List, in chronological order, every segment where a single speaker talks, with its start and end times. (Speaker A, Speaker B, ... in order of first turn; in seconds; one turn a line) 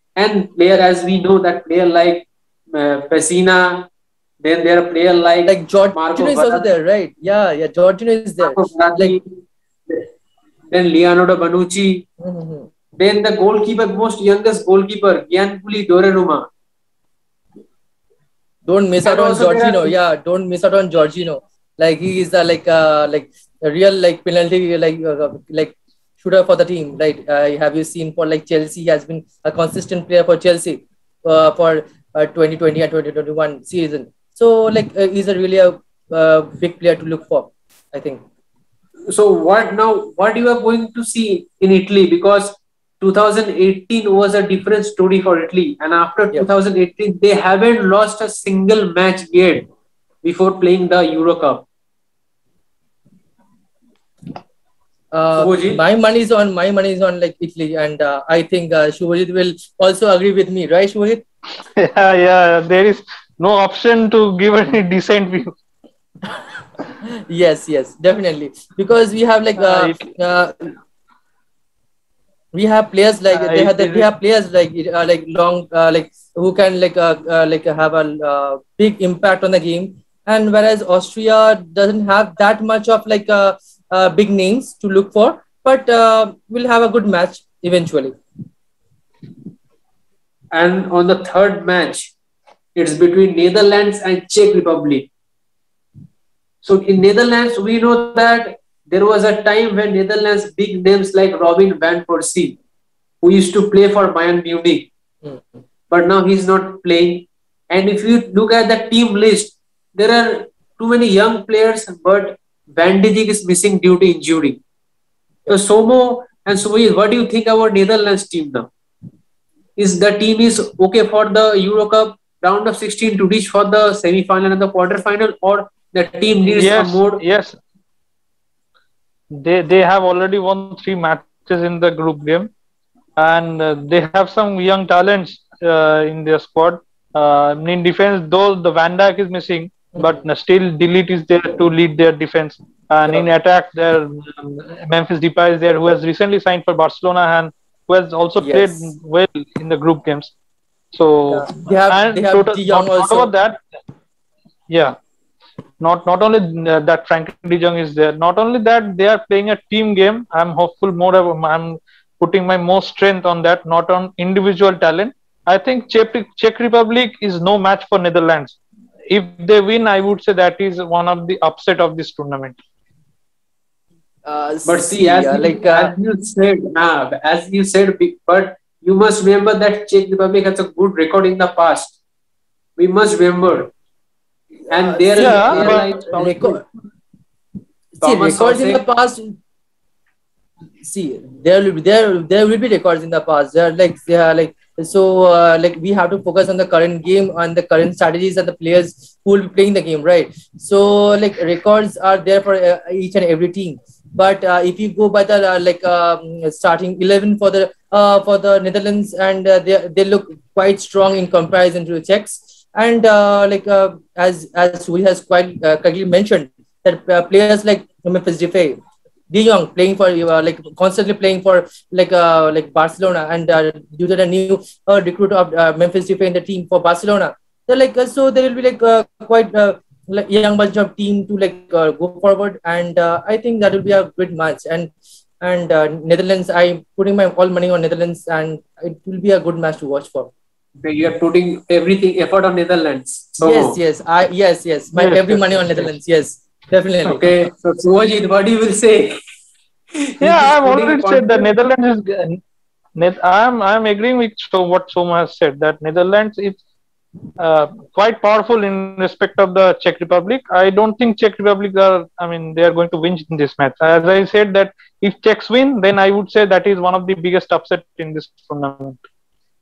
Speaker A: 0.2-3.9
Speaker A: 4.4-6.7
Speaker B: 5.5-9.2
Speaker A: 8.4-9.3
Speaker A: 10.7-12.1
Speaker B: 12.2-12.7
Speaker A: 13.0-16.5
Speaker B: 18.7-38.2
Speaker A: 19.0-19.9
Speaker A: 39.1-49.7
Speaker A: 50.2-51.7
Speaker B: 55.1-61.2
Speaker A: 55.4-55.8
Speaker C: 61.8-65.5
Speaker B: 67.3-70.8
Speaker C: 69.6-70.1
Speaker B: 72.5-88.2
Speaker C: 73.3-74.1
Speaker A: 90.5-92.1
Speaker A: 92.8-95.1
Speaker A: 96.6-102.6
Speaker A: 103.2-104.9
Speaker A: 105.9-114.6
Speaker A: 115.5-118.7
Speaker A: 119.8-127.2
Speaker C: 126.5-127.6
Speaker C: 129.3-132.5
Speaker C: 133.2-150.3
Speaker B: 140.0-140.2
Speaker B: 148.4-148.9
Speaker C: 150.9-153.6
Speaker B: 151.3-153.3
Speaker C: 154.7-154.9
Speaker C: 155.8-168.6
Speaker C: 169.1-172.6
Speaker B: 174.2-175.9
Speaker A: 174.7-182.0
Speaker A: 182.8-183.7
Speaker A: 184.7-186.6
Speaker B: 184.7-186.6
Speaker C: 185.2-185.9
Speaker B: 188.0-189.3
Speaker A: 188.0-188.8
Speaker B: 190.8-240.3
Speaker A: 240.8-243.8
Speaker B: 243.4-247.5
Speaker A: 244.9-245.9
Speaker A: 247.1-249.2
Speaker A: 250.0-251.5
Speaker C: 250.2-252.4
Speaker C: 253.0-256.6
Speaker C: 257.4-269.0